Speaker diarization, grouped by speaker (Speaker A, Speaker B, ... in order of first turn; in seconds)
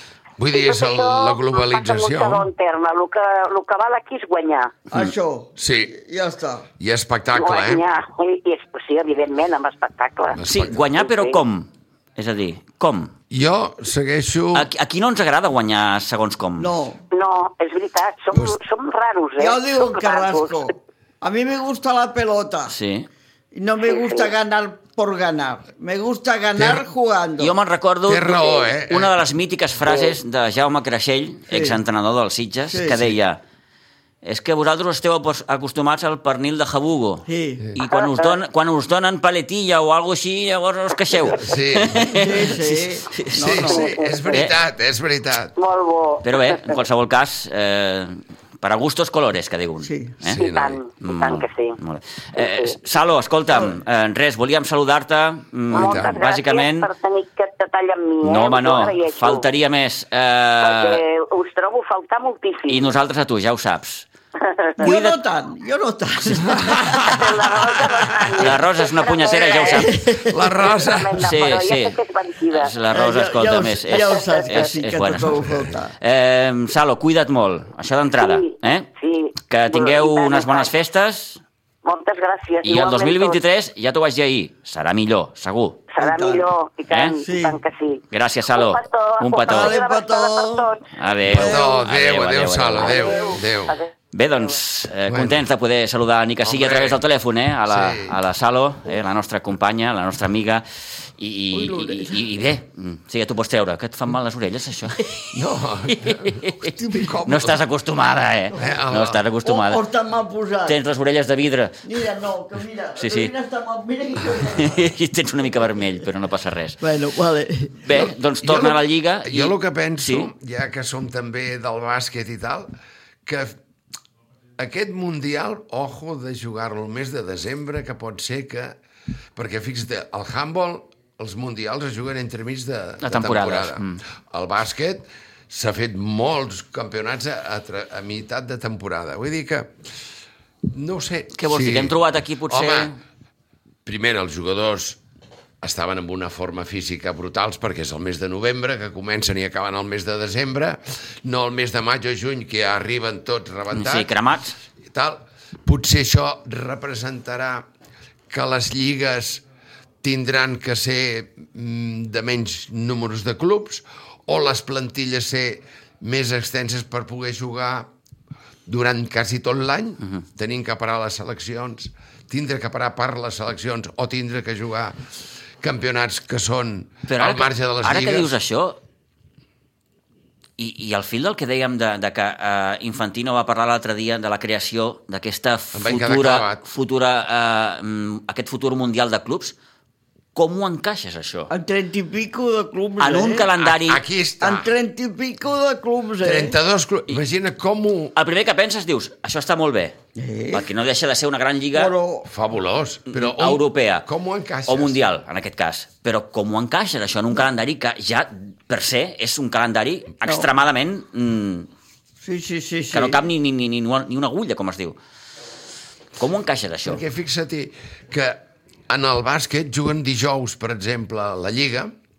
Speaker A: 0.4-2.5, 5.6-6.0, 6.8-7.8, 10.3-10.8, 13.3-14.7, 18.3-18.6, 26.6-26.9, 28.1-29.1, 41.3-42.2, 43.4-45.5, 50.2-50.8, 55.7-56.2, 66.4-68.4, 70.2-71.2, 75.4-75.7, 91.2-93.8, 95.1-95.5, 96.4-97.0, 97.7-98.2, 105.3-107.6, 108.6-109.2, 117.9-122.7, 123.2-123.6, 124.6-128.8, 129.4-139.7, 140.7-142.0, 142.5-142.9, 143.8-145.0, 145.6-154.2, 154.9-157.7, 158.3-159.4, 160.0-167.9, 168.7-175.0, 175.6-178.3, 185.7-186.7, 193.6-194.7, 196.2-198.1, 202.3-205.0, 216.8-218.4, 218.9-221.9
Speaker B: 0.5-4.7, 7.3-11.4, 17.1-20.6, 23.8-24.3, 29.9-30.2, 37.8-38.4, 43.7-44.2, 45.6-46.8, 50.4-51.8, 52.4-52.8, 55.7-59.5, 60.6-62.9, 64.4-64.9, 67.0-69.9, 70.6-72.8, 73.9-74.7, 78.2-80.7, 81.8-83.4, 85.9-90.8, 92.9-93.9
Speaker C: 4.9-6.7, 16.6-17.0, 19.4-22.8, 23.5-27.6, 31.5-31.8, 32.7-33.0, 37.3-37.7, 42.1-44.0, 49.8-50.1, 64.8-67.3, 69.6-70.6, 72.9-75.9, 86.0-86.5, 87.2-87.6, 89.5-90.8, 91.3-91.8, 92.9-93.3, 101.5-102.2, 106.6-107.2, 109.4-110.8, 111.8-114.8, 116.8-117.8, 191.5-193.5, 194.4-196.6, 200.2-200.7, 201.7-202.3, 210.2-210.5, 212.2-213.2
Speaker D: 10.5-13.1, 14.5-16.7, 22.7-23.1, 27.4-33.4, 34.2-43.7, 44.3-44.6, 46.2-50.4, 51.0-56.9, 58.2-61.0, 62.7-64.1, 64.8-65.2, 68.3-70.0, 71.2-72.0, 72.5-78.9, 79.4-81.4, 82.6-85.9, 86.9-87.2, 88.1-89.8, 90.9-93.2, 94.1-100.6, 101.2-105.3, 105.9-109.8, 110.7-111.8, 113.0-113.3, 114.4-116.8, 117.8-120.3, 133.0-134.0, 141.4-143.0, 153.7-154.6, 177.1-178.8, 180.6-189.6, 190.3-191.5, 193.0-194.0, 198.2-200.0, 200.5-201.9, 203.1-204.1, 204.7-211.7, 212.9-215.0, 216.2-217.0